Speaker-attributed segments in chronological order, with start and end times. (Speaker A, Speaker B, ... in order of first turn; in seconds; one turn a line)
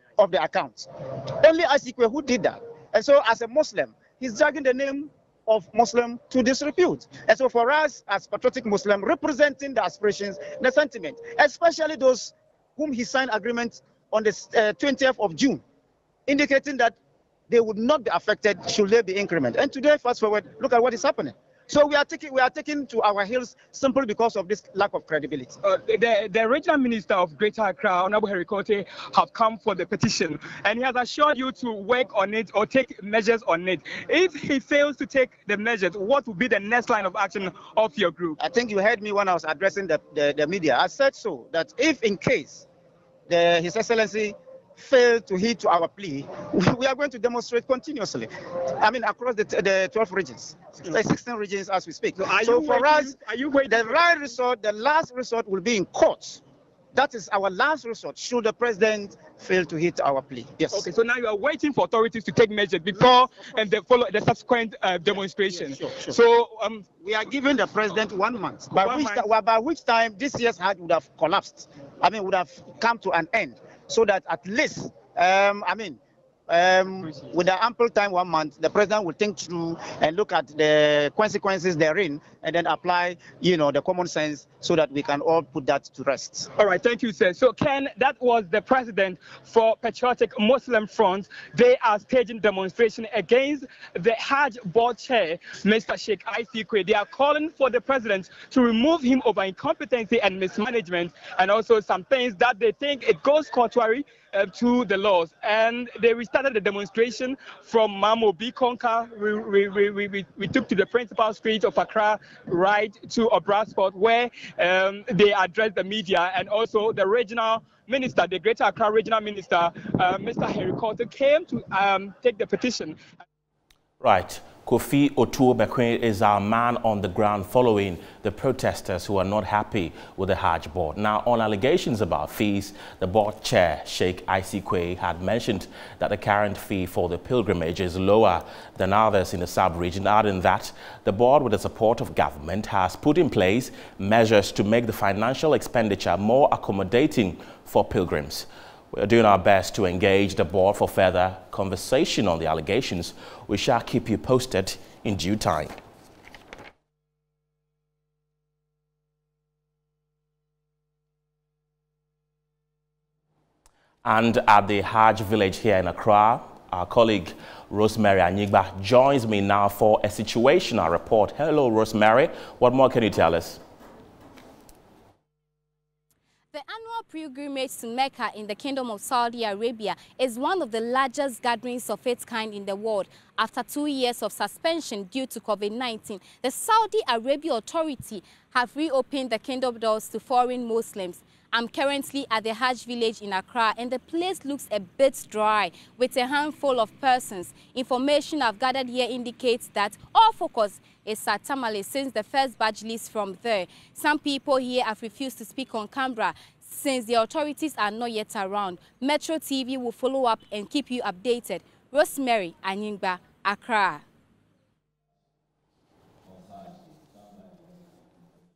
Speaker A: 0.2-15.6
Speaker A: 16.3-17.0
Speaker A: 17.5-25.6
Speaker B: 25.6-38.4
Speaker A: 38.4-42.7
Speaker A: 43.3-56.4
Speaker B: 52.2-54.0
Speaker A: 56.9-60.9
Speaker B: 60.7-66.9
Speaker A: 65.6-66.2
Speaker A: 67.0-86.5
Speaker B: 68.7-69.2
Speaker B: 86.6-123.0
Speaker C: 124.0-155.7
Speaker C: 164.0-173.6
Speaker D: 176.5-214.0